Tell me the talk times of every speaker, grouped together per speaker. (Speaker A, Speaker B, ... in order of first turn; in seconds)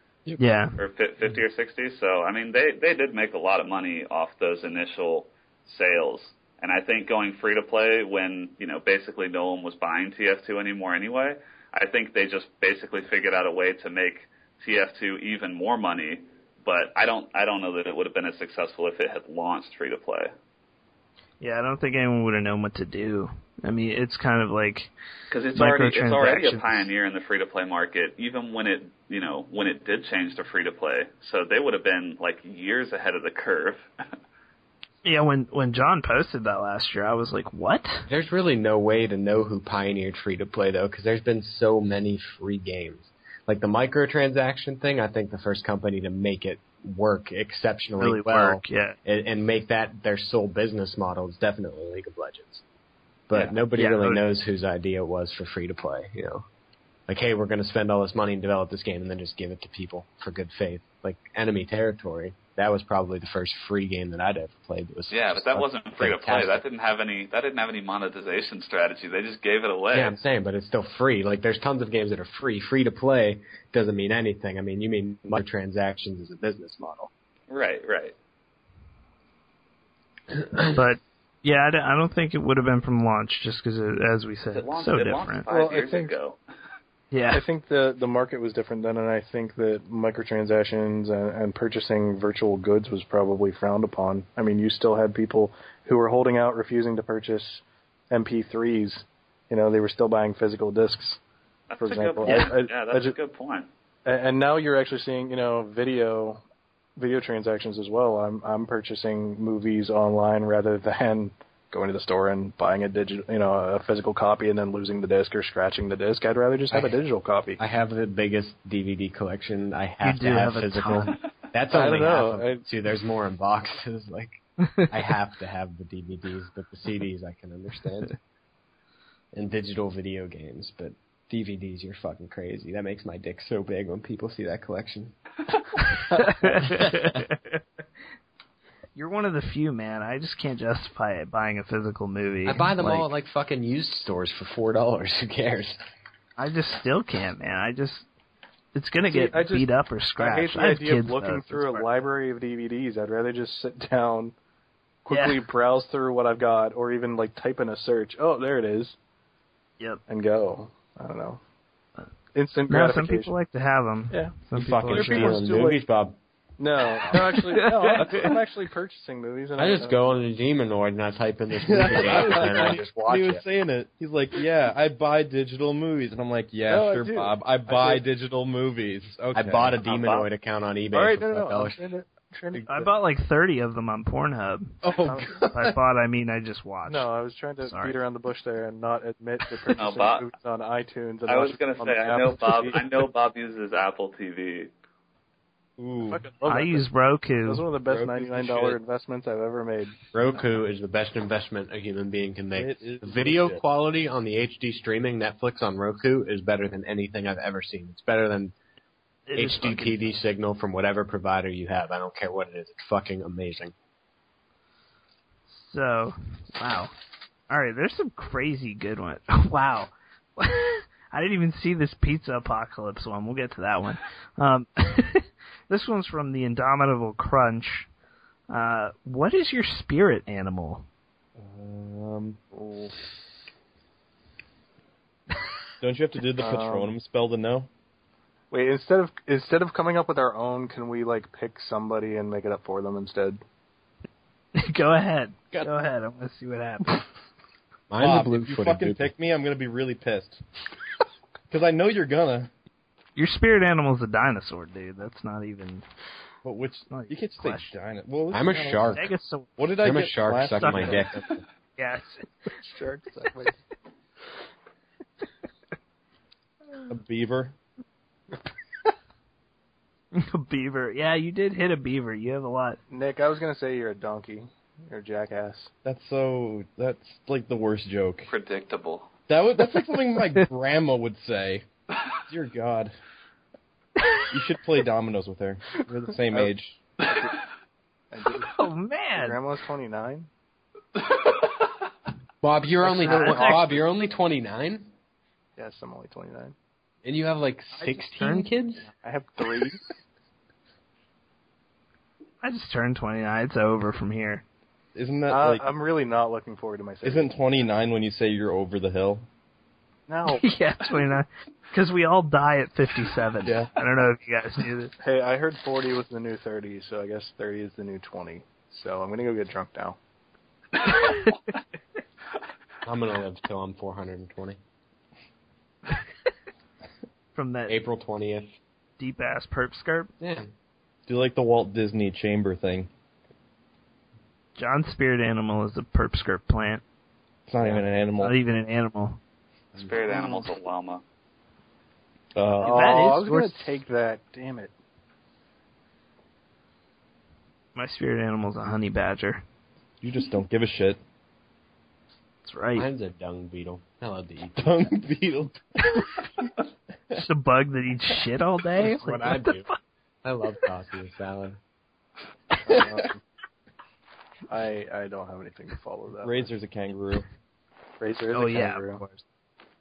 Speaker A: 0.4-0.8, 21.4-24.9, 25.6-26.9, 35.0-38.1, 48.0-49.0, 53.4-54.2, 80.7-85.4, 87.1-87.4, 102.2-102.5, 120.0-121.2, 136.1-137.2, 138.9-143.1, 146.4-148.1, 148.7-151.8, 155.1-155.4, 162.7-165.7, 167.1-168.3, 182.5-188.0, 196.5-197.7, 209.3-210.0, 215.5-216.9, 217.5-227.9, 228.5-230.8, 244.5-247.1, 253.2-255.8, 256.9-257.7, 258.9-259.6, 260.5-261.0, 261.8-262.3, 270.1-272.8, 288.4-289.4, 293.0-293.7, 302.4-304.4, 310.3-314.9, 320.9-321.3, 327.3-327.8, 329.0-330.1, 334.6-336.8, 338.2-339.2, 342.6-343.8, 347.7-349.4, 352.4-352.9, 357.2-359.8, 368.3-369.2
Speaker B: 0.8-20.3, 25.3-33.9, 65.1-70.2, 77.5-78.1, 84.5-86.4, 101.7-103.7, 179.8-180.2, 189.8-190.3, 191.2-194.7, 278.3-279.1, 339.8-341.0
Speaker C: 38.1-52.6, 53.3-56.5, 57.1-66.6, 69.9-77.1, 80.3-80.8, 116.7-117.0, 117.6-128.2, 129.3-135.1, 136.4-137.2, 142.4-145.8, 164.5-166.2, 169.5-173.4, 179.3-181.8, 200.1-208.5, 209.3-213.7, 247.9-249.1, 258.3-259.1, 259.8-261.3, 292.4-294.9, 297.0-298.9, 322.8-324.6, 327.7-328.6, 330.2-330.5, 339.8-340.4, 352.7-354.9, 358.8-359.7, 360.2-361.6
Speaker D: 85.5-86.2, 87.3-101.2, 101.8-103.2, 104.0-106.4, 107.0-117.6, 121.7-122.7, 149.1-154.3, 155.0-159.0, 160.1-161.4, 162.3-163.3, 164.1-164.4, 164.9-165.8, 166.6-170.2, 172.0-172.8, 176.7-178.0, 180.9-182.9, 185.0-185.2, 186.9-193.1, 196.1-196.9, 197.4-200.0, 232.5-233.0, 236.3-236.9, 238.5-243.4, 262.6-263.6, 272.9-275.7, 286.3-287.3, 288.1-290.3, 292.8-293.8, 295.6-296.5, 297.7-299.9, 305.3-307.4, 310.1-310.4, 315.0-320.0, 342.6-344.7, 362.6-363.2, 364.5-366.5, 368.0-369.0
Speaker E: 171.6-179.8, 184.8-185.8, 195.8-196.2, 197.8-198.8, 202.6-203.6, 231.4-232.4, 235.8-237.7, 245.5-245.8, 248.0-250.4, 251.5-252.5, 256.4-261.3, 266.9-267.5, 275.8-278.3, 279.3-281.6, 282.3-282.9, 284.3-286.8, 304.9-305.7, 307.0-309.2, 313.4-313.7, 331.1-332.9, 337.4-338.4, 342.3-343.0, 350.0-351.0, 354.6-356.5, 366.2-367.2